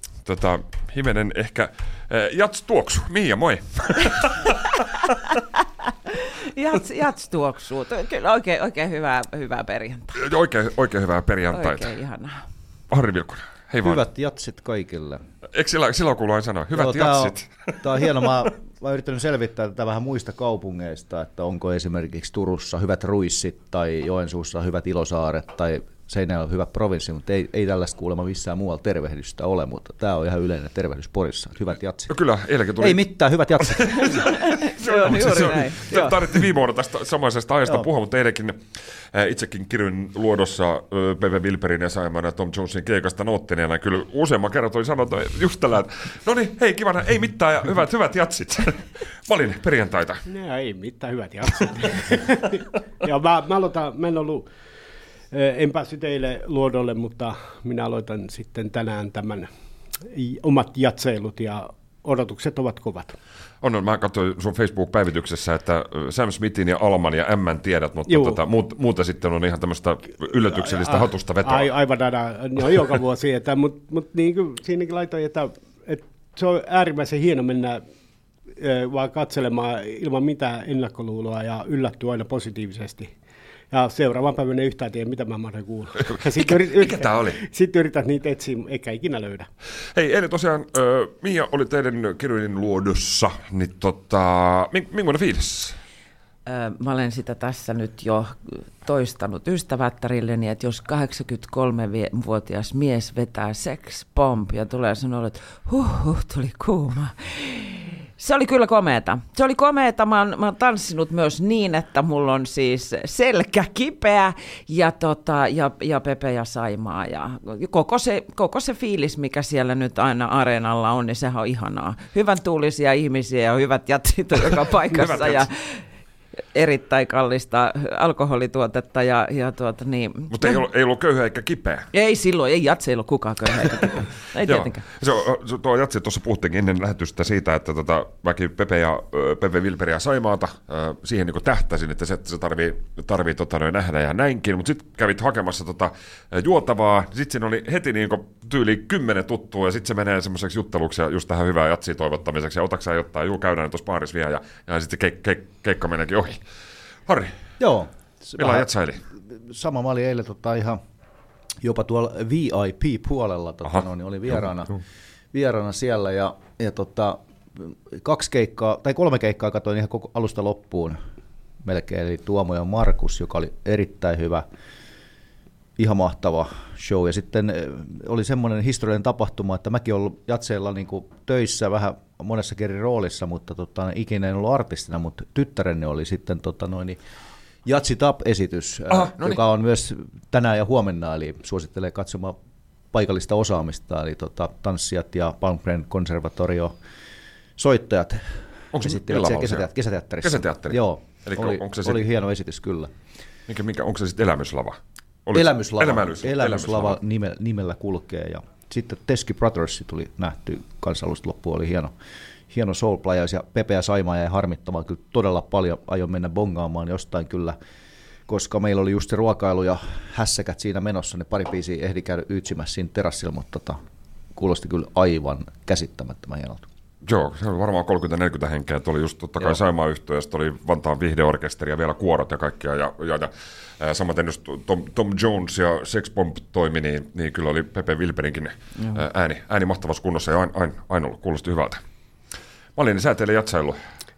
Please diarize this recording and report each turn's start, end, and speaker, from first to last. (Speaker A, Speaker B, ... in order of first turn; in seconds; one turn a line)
Speaker A: 0.2-4.8
Speaker B: 6.1-10.2
Speaker A: 10.2-11.9
Speaker B: 11.5-12.4
Speaker A: 12.9-14.0
Speaker C: 13.8-15.2
Speaker A: 15.5-17.8
Speaker C: 16.8-32.1
Speaker A: 32.1-33.0
Speaker C: 32.8-34.2
Speaker A: 33.6-50.3
Speaker B: 34.1-36.1
Speaker D: 50.3-54.5
Speaker D: 55.3-59.5
Speaker D: 60.0-63.2
Speaker A: 63.6-71.7
Speaker D: 68.1-68.4
Speaker D: 70.7-77.8
Speaker D: 78.6-83.1
Speaker D: 83.7-89.5
Speaker A: 86.1-87.4
Speaker A: 90.0-95.8
Speaker B: 96.5-125.8
Speaker A: 124.9-125.5
Speaker B: 126.5-130.6
Speaker A: 130.3-131.9
Speaker B: 131.9-134.8
Speaker A: 134.4-156.4
Speaker A: 157.1-157.3
Speaker C: 157.6-160.8
Speaker A: 158.4-159.0
Speaker C: 161.6-171.0
Speaker C: 171.6-174.4
Speaker C: 175.8-187.0
Speaker C: 187.7-192.4
Speaker A: 188.9-189.4
Speaker C: 192.9-196.7
Speaker C: 197.6-202.9
Speaker A: 198.7-199.7
Speaker A: 200.2-202.0
Speaker A: 203.5-207.0
Speaker C: 205.3-211.9
Speaker C: 212.5-217.6
Speaker C: 218.3-223.8
Speaker C: 224.3-226.7
Speaker A: 227.1-241.8
Speaker A: 242.8-243.8